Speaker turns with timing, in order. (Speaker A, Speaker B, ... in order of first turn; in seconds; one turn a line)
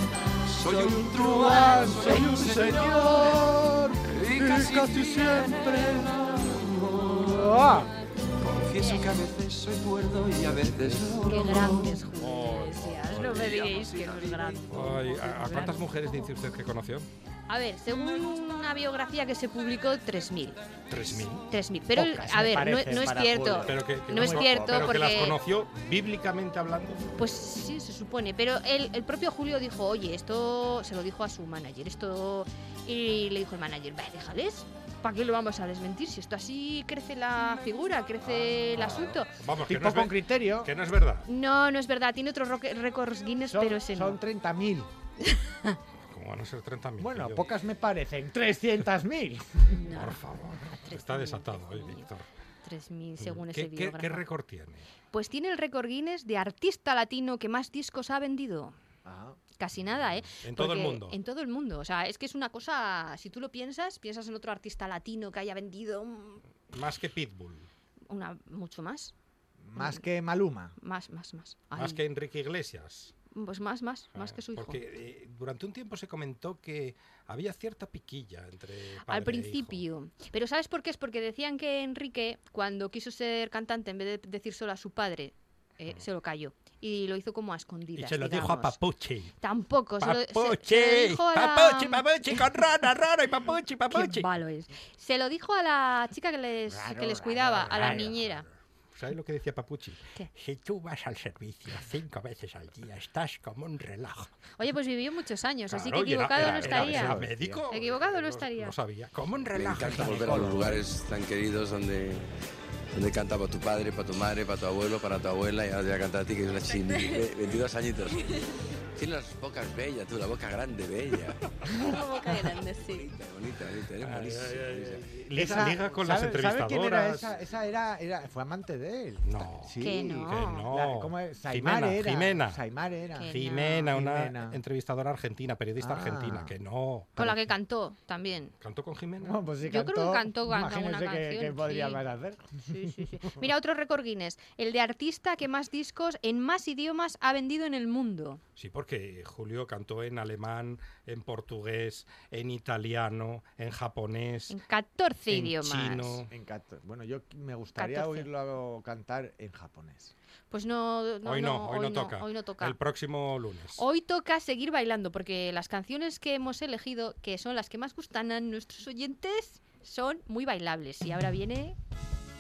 Speaker A: 0.5-7.8
Speaker B: 0.8-5.9
Speaker B: 7.3-7.9
Speaker A: 8.4-12.0
Speaker C: 8.8-9.1
Speaker C: 11.2-15.9
Speaker A: 13.1-14.6
Speaker D: 14.7-17.1
Speaker C: 17.5-20.6
Speaker D: 20.9-21.5
Speaker C: 21.5-25.4
Speaker B: 21.9-25.0
Speaker D: 23.7-27.0
Speaker C: 27.2-39.3
Speaker B: 38.7-40.7
Speaker D: 38.9-41.2
Speaker C: 41.3-44.2
Speaker B: 43.5-44.9
Speaker C: 45.3-45.8
Speaker D: 46.1-47.5
Speaker B: 47.0-49.8
Speaker C: 49.8-50.2
Speaker D: 49.9-52.3
Speaker C: 50.8-52.1
Speaker C: 52.6-54.2
Speaker D: 53.2-54.9
Speaker C: 55.1-58.8
Speaker B: 59.0-59.4
Speaker C: 59.6-66.4
Speaker D: 60.4-61.2
Speaker D: 66.7-67.7
Speaker C: 68.1-69.1
Speaker B: 69.6-70.8
Speaker C: 69.8-70.0
Speaker C: 70.8-72.0
Speaker D: 71.8-73.1
Speaker C: 73.3-74.8
Speaker D: 74.2-79.8
Speaker C: 79.1-88.8
Speaker D: 88.0-89.3
Speaker C: 89.4-92.5
Speaker D: 90.0-94.3
Speaker C: 93.9-98.5
Speaker B: 96.7-98.2
Speaker D: 97.6-98.3
Speaker D: 98.9-104.3
Speaker C: 104.6-108.8
Speaker D: 105.7-110.8
Speaker B: 106.3-107.7
Speaker E: 109.5-112.3
Speaker B: 109.7-110.8
Speaker E: 112.9-118.4
Speaker E: 119.0-125.1
Speaker D: 124.0-127.3
Speaker B: 125.3-133.4
Speaker D: 129.2-132.6
Speaker C: 129.8-130.7
Speaker C: 133.2-133.9
Speaker D: 133.3-137.2
Speaker B: 133.9-134.6
Speaker B: 135.8-136.5
Speaker C: 137.2-138.6
Speaker D: 138.6-139.4
Speaker B: 139.2-143.2
Speaker C: 139.6-142.0
Speaker C: 142.7-148.4
Speaker D: 148.6-154.6
Speaker C: 154.5-156.2
Speaker D: 155.3-156.3
Speaker B: 156.3-160.1
Speaker C: 157.8-158.3
Speaker C: 160.5-162.8
Speaker D: 161.2-163.8
Speaker C: 163.8-171.8